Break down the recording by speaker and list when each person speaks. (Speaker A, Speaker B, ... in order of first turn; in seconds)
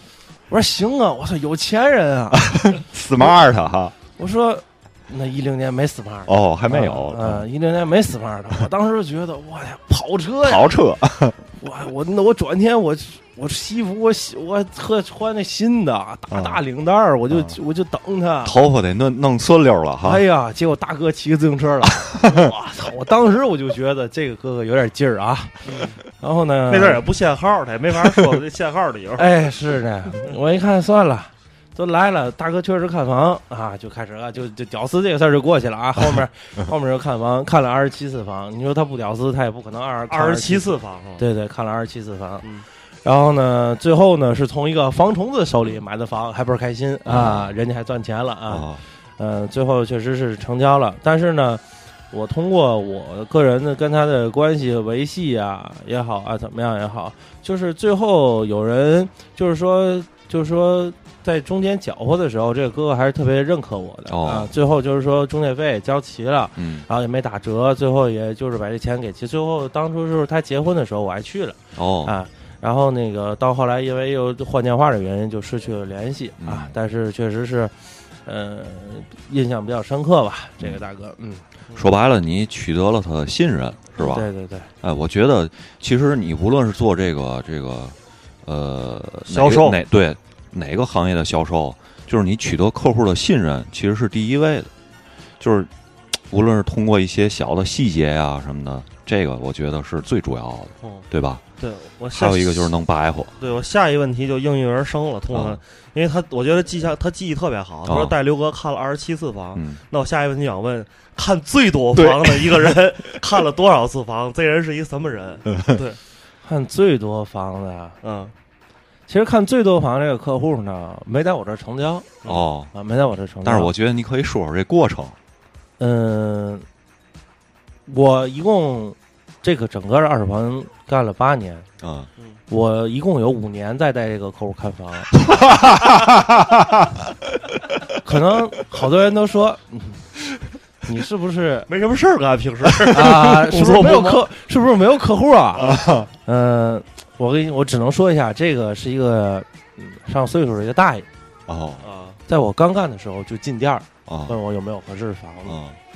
Speaker A: 0.5-2.5, 4.2-10.8, 11.6-18.6, 20.0-27.0, 29.2-42.5, 43.0-81.4, 84.0-84.7, 116.4-118.0, 119.1-122.2, 122.7-123.7, 125.8-126.7, 127.8-131.7, 132.5-135.2, 137.9-140.1, 140.8-141.7, 142.9-151.1, 152.3-155.6
Speaker B: 2.4-3.9, 6.3-7.4, 10.4-11.4, 16.3-16.6, 17.3-17.6, 18.4-20.2, 47.0-47.5, 48.5-48.8, 64.1-64.5, 66.5-66.9, 71.7-72.2, 76.4-76.7, 81.7-84.3, 84.8-94.7, 95.4-101.4, 102.1-103.4, 105.3-105.6, 107.8-108.1, 109.5-109.8, 111.9-112.8, 122.2-122.7, 123.4-125.2, 131.8-132.1, 135.5-136.8, 145.6-146.1, 151.5-151.8, 154.1-154.3, 155.4-155.8
Speaker C: 25.6-26.0, 26.7-29.3, 40.1-41.2, 89.3-89.8, 101.6-102.7, 103.4-116.0, 118.0-118.3, 141.7-144.2, 145.6-145.9, 151.8-152.2